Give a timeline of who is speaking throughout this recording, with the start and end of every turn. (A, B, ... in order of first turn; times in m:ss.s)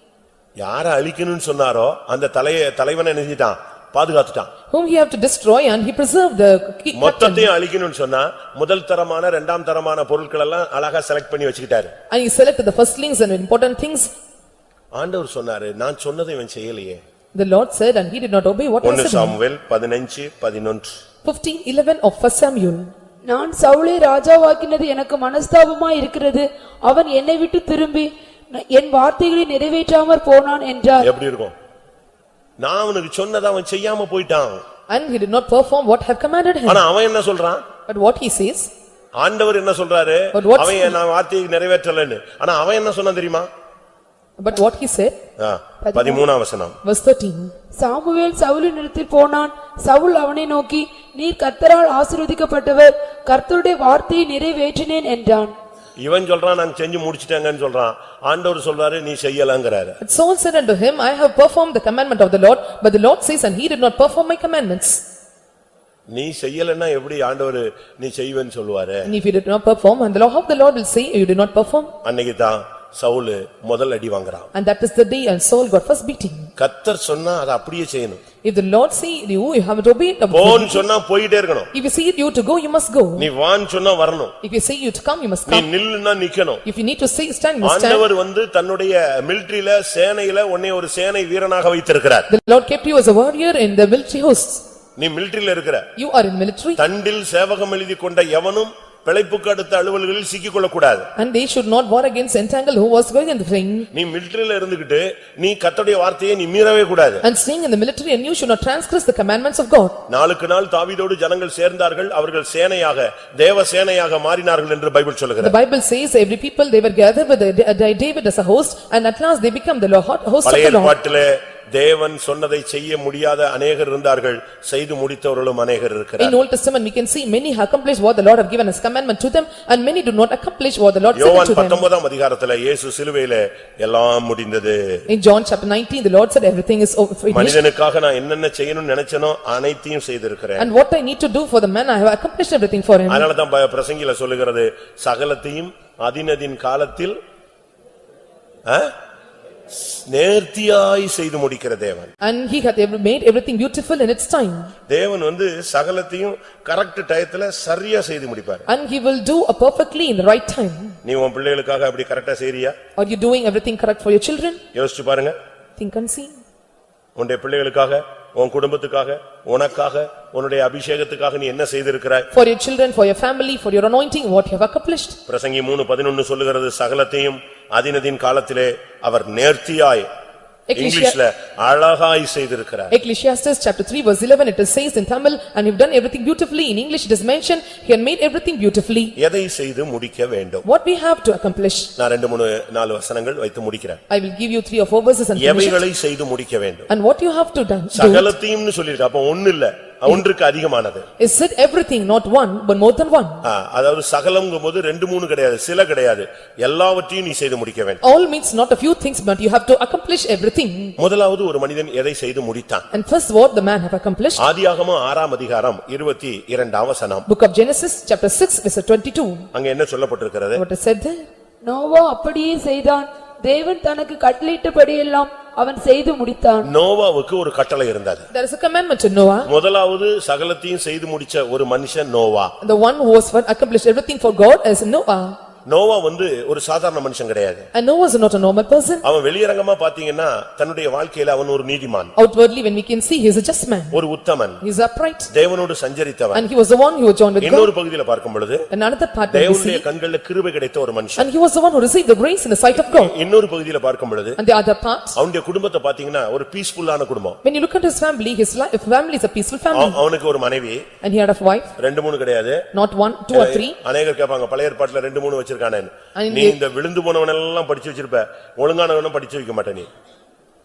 0:00.6-0:04.5 A
0:04.7-0:07.5 B
0:07.0-0:11.9 A
0:12.1-0:14.1 B
0:15.0-0:17.0 A
0:17.4-0:19.4 B
0:18.8-0:21.0 A
0:21.2-0:22.9 B
0:23.2-0:31.1 C
0:31.0-0:31.5 A
0:32.6-0:34.6 A
0:34.9-0:36.8 B
0:36.7-0:37.6 A
0:37.9-0:38.7 B
0:39.2-0:43.5 A
0:40.3-0:41.0 B
0:44.4-0:45.2 B
0:45.4-0:46.8 A
0:45.8-0:46.2 B
0:46.8-0:47.5 B
0:47.7-0:55.5 C
0:56.0-1:00.0 A
1:00.0-1:05.0 B
1:06.1-1:09.1 A
1:09.1-1:11.9 B
1:12.0-1:14.5 A
1:14.5-1:16.5 B
1:16.6-1:18.2 A
1:18.4-1:20.8 B
1:20.3-1:21.7 A
1:21.7-1:23.3 B
1:23.2-1:24.3 A
1:24.4-1:25.7 B
1:25.5-1:26.6 A
1:26.6-1:28.0 B
1:27.6-1:32.3 A
1:32.3-1:34.6 B
1:35.0-1:35.9 A
1:36.0-1:36.8 B
1:36.8-1:41.1 A
1:41.2-1:43.9 B
1:43.9-1:47.2 A
1:47.2-1:50.0 B
1:50.1-1:55.6 A
1:55.4-2:01.0 B
2:00.4-2:06.4 A
2:06.2-2:11.8 B
2:11.2-2:15.0 A
2:15.1-2:17.6 B
2:17.3-2:20.7 A
2:20.6-2:23.3 B
2:23.1-2:27.2 A
2:28.7-2:28.9 A
2:29.7-2:32.1 A
2:32.2-2:34.7 B
2:34.9-2:38.7 A
2:38.7-2:41.0 B
2:41.0-2:42.8 A
2:43.0-2:44.6 B
2:44.7-2:45.3 A
2:45.8-2:46.4 B
2:47.2-2:52.3 A
2:52.3-2:55.2 B
2:55.3-3:00.1 A
3:00.7-3:01.2 B
3:00.8-3:02.9 A
3:02.9-3:09.2 B
3:09.2-3:10.6 A
3:10.7-3:11.9 B
3:12.0-3:14.0 A
3:14.1-3:15.8 B
3:15.4-3:16.9 A
3:16.9-3:18.3 B
3:17.9-3:21.0 A
3:21.2-3:23.4 B
3:23.4-3:28.0 A
3:28.0-3:31.0 B
3:31.0-3:32.8 A
3:32.9-3:34.4 B
3:34.4-3:37.3 A
3:37.3-3:39.5 B
3:39.5-3:40.6 A
3:40.6-3:41.3 B
3:41.6-3:46.7 C
3:46.6-3:48.3 A
3:48.3-3:49.5 B
3:49.5-3:52.5 A
3:52.6-3:55.4 B
3:55.7-3:57.7 A
3:57.7-3:59.0 B
3:59.0-4:02.1 A
4:02.2-4:04.0 B
4:03.9-4:04.6 A
4:04.6-4:05.3 B
4:05.3-4:06.5 A
4:06.3-4:07.7 B
4:07.4-4:08.6 A
4:08.7-4:09.8 B
4:09.3-4:11.3 A
4:11.2-4:13.1 B
4:12.8-4:14.4 A
4:14.4-4:15.2 B
4:15.2-4:17.4 A
4:17.4-4:20.0 B
4:19.7-4:20.8 A
4:21.0-4:21.7 B
4:21.8-4:22.6 A
4:22.7-4:23.8 B
4:23.3-4:29.9 A
4:26.2-4:26.6 B